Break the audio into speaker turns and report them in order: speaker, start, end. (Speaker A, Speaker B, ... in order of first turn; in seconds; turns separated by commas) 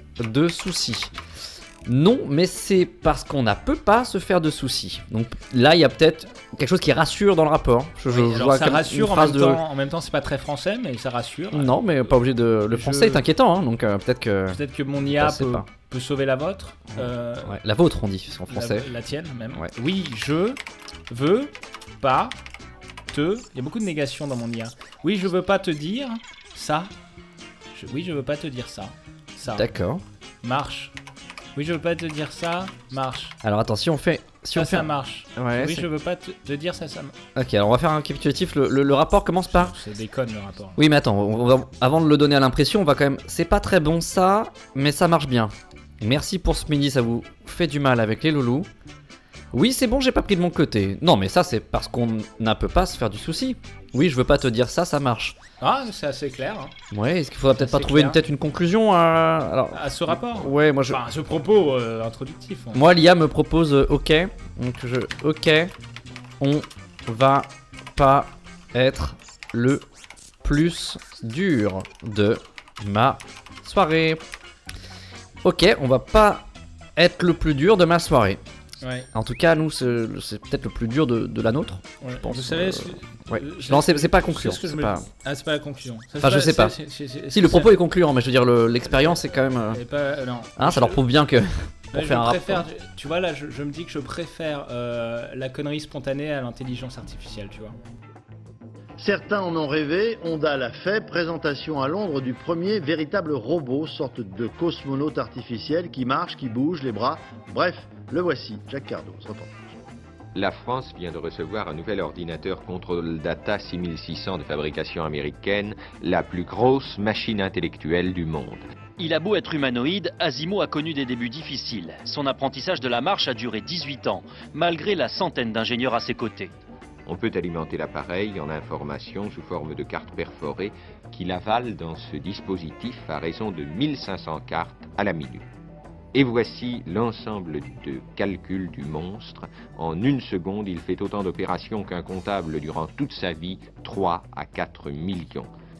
Speaker A: 0.2-1.1, Speaker A: 1.9-9.6, Speaker B: 8.1-11.8, Speaker A: 11.5-15.7, Speaker B: 12.7-13.2, Speaker B: 14.5-17.6, Speaker A: 16.9-18.9, Speaker B: 18.5-22.4, Speaker B: 23.1-26.9, Speaker B: 27.7-29.7, Speaker A: 29.5-30.0, Speaker B: 30.4-30.9, Speaker B: 31.6-33.4, Speaker A: 33.4-35.9, Speaker B: 34.5-37.1, Speaker A: 37.4-39.7, Speaker B: 39.5-40.8, Speaker A: 40.8-48.7, Speaker A: 49.5-55.4, Speaker B: 55.6-56.8, Speaker A: 56.9-61.0, Speaker B: 57.5-58.2, Speaker B: 59.7-62.8, Speaker A: 62.7-65.7, Speaker A: 66.4-69.8, Speaker A: 70.4-74.2, Speaker A: 75.4-78.4, Speaker B: 78.8-79.1, Speaker A: 79.1-85.1, Speaker B: 82.0-87.7, Speaker A: 86.2-86.8, Speaker A: 87.3-89.8, Speaker B: 89.7-91.0, Speaker A: 90.6-92.6, Speaker B: 91.9-97.8, Speaker C: 99.0-109.7, Speaker D: 110.3-118.6, Speaker E: 119.0-126.5, Speaker D: 127.1-135.4, Speaker D: 136.1-145.5